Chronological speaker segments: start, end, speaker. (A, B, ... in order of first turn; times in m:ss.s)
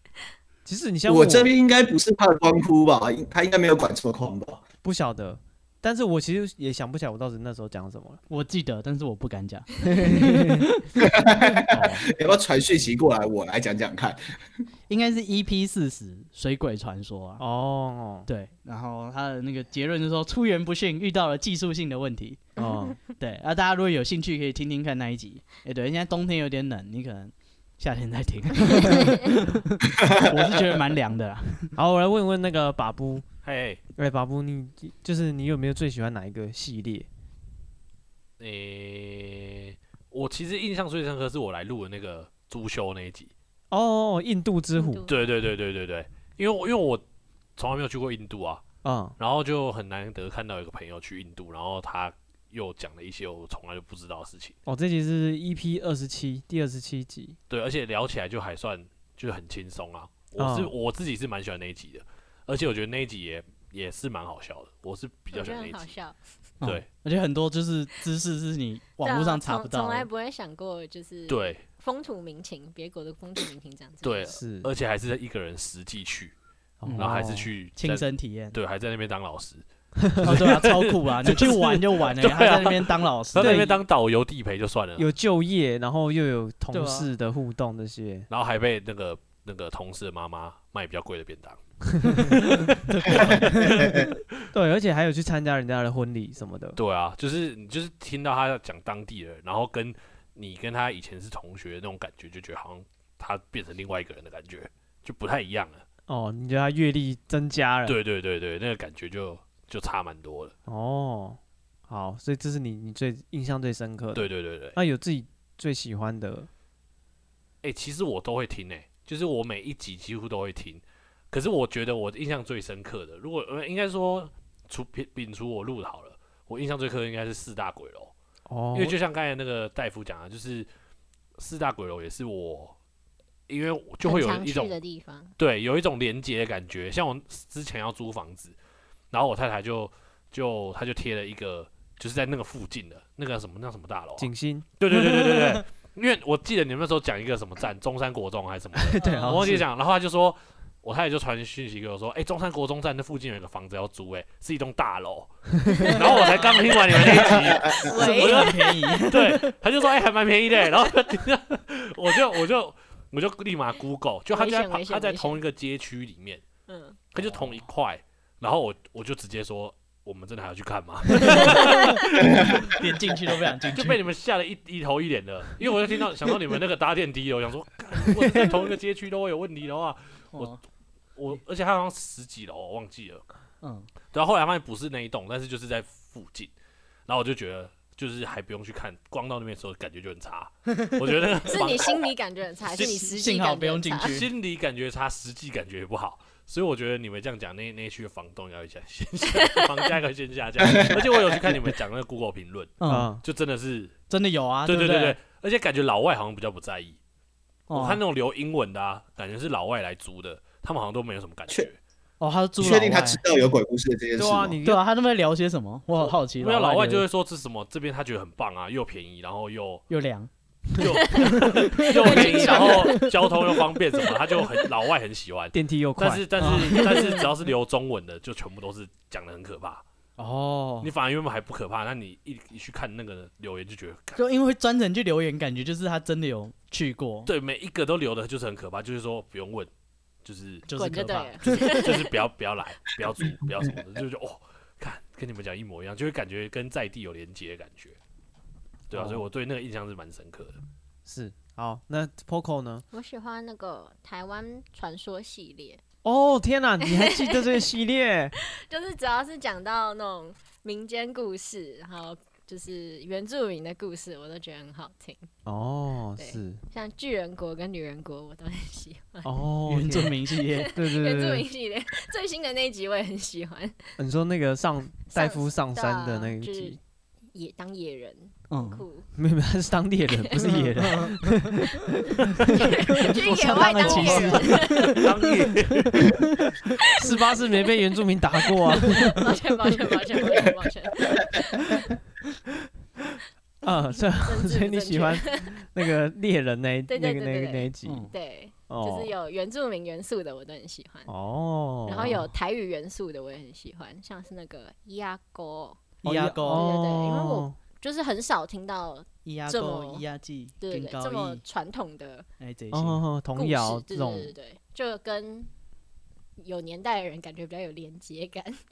0:00.6-0:01.5 A
0:01.1-0:04.6 B
0:04.8-0:08.2 A
0:08.3-0:10.9 C
0:10.0-0:10.6 A
0:11.0-0:14.2 B
0:11.7-0:12.0 C
0:14.9-0:17.4 C
0:17.4-0:18.3 A
0:18.3-0:22.4 C
0:22.6-0:22.9 D
0:22.6-0:23.0 A
0:23.2-0:31.7 C
0:31.8-0:33.2 A
0:33.4-0:33.8 E
0:34.0-0:37.1 A
0:38.4-0:43.3 E
0:43.7-0:45.0 A
0:44.8-0:45.1 D
0:45.0-0:47.0 E
0:47.6-0:48.6 E
0:48.8-0:49.2 A
0:49.2-0:54.6 E
0:54.6-0:57.4 A
0:57.5-1:05.9 E
1:00.4-1:00.7 A
1:05.3-1:06.2 D
1:06.6-1:10.1 C
1:09.0-1:14.4 D
1:11.3-1:11.6 E
1:14.0-1:16.3 E
1:14.3-1:14.7 A
1:16.8-1:17.5 A
1:16.8-1:17.2 C
1:17.0-1:19.6 E
1:17.8-1:18.6 C
1:20.0-1:20.4 A
1:20.2-1:25.1 E
1:20.2-1:23.6 C
1:23.4-1:23.7 A
1:25.0-1:28.2 A
1:26.7-1:27.1 C
1:28.3-1:34.0 E
1:32.1-1:34.1 C
1:34.5-1:36.8 A
1:36.8-1:45.8 E
1:46.1-1:48.0 A
1:47.8-1:50.5 E
1:50.7-1:56.5 A
1:54.1-1:54.8 E
1:57.6-2:08.1 E
2:08.5-2:09.0 A
2:08.7-2:10.7 E
2:11.4-2:12.7 E
2:13.5-2:14.8 E
2:14.0-2:15.3 D
2:15.4-2:18.5 E
2:19.1-2:46.4 E
2:24.2-2:24.7 A
2:25.0-2:25.6 C
2:28.9-2:29.6 A
2:29.0-2:29.6 C
2:35.7-2:36.6 D
2:36.0-2:36.6 C
2:37.5-2:37.8 B
2:37.7-2:38.7 D
2:37.9-2:39.5 C
2:44.3-2:45.4 D
2:46.7-2:47.0 D
2:47.1-2:52.7 E
2:51.2-2:54.0 C
2:53.7-3:00.5 E
3:00.3-3:00.6 C
3:01.2-3:03.2 E
3:03.6-3:03.9 C
3:04.1-3:06.5 E
3:07.1-3:12.0 E
3:10.7-3:11.0 C
3:11.4-3:14.1 D
3:12.8-3:14.2 C
3:14.0-3:23.9 E
3:20.6-3:21.5 B
3:22.8-3:23.1 C
3:22.9-3:23.2 A
3:24.1-3:25.2 C
3:24.6-3:27.0 E
3:27.7-3:28.0 C
3:27.7-3:31.8 E
3:32.2-3:33.2 C
3:32.6-3:34.6 B
3:34.2-3:34.8 A
3:34.6-3:37.0 C
3:36.4-3:39.8 E
3:39.9-3:40.3 C
3:40.8-3:49.8 E
3:41.0-3:41.3 D
3:41.0-3:43.1 C
3:41.9-3:43.1 D
3:45.5-3:46.2 A
3:46.4-3:47.2 C
3:50.2-3:50.9 C
3:50.8-3:54.2 E
3:54.2-3:57.3 C
3:57.2-3:59.7 E
4:00.2-4:00.6 E
4:00.7-4:01.9 C
4:00.7-4:02.1 D
4:01.4-4:08.0 E
4:08.9-4:10.6 E
4:08.9-4:09.2 A
4:11.0-4:12.8 A
4:12.9-4:15.8 D
4:16.0-4:18.3 A
4:16.8-4:17.4 D
4:18.4-4:25.3 D
4:25.4-4:26.6 A
4:26.2-4:29.3 D
4:29.2-4:30.1 A
4:29.7-4:30.7 C
4:30.5-4:33.8 D
4:30.7-4:31.4 A
4:34.0-4:36.8 A
4:35.0-4:36.8 D
4:37.3-4:39.1 D
4:38.5-4:38.8 C
4:39.2-4:42.1 A
4:40.8-4:41.4 C
4:42.4-4:46.5 C
4:42.4-4:45.0 D
4:43.2-4:46.2 E
4:47.0-4:49.2 A
4:47.0-4:47.7 D
4:48.7-4:51.9 D
4:53.6-4:58.1 A
4:54.2-4:55.6 D
4:56.9-5:01.1 D
4:57.8-4:58.1 C
4:58.7-4:59.1 A
5:01.1-5:02.2 A
5:01.8-5:05.9 D
5:02.0-5:02.3 C
5:06.0-5:06.7 C
5:06.0-5:07.6 A
5:06.4-5:10.0 D
5:09.2-5:11.4 C
5:10.6-5:12.2 D
5:12.4-5:13.0 C
5:12.7-5:14.3 A
5:13.4-5:15.5 D
5:16.4-5:18.6 D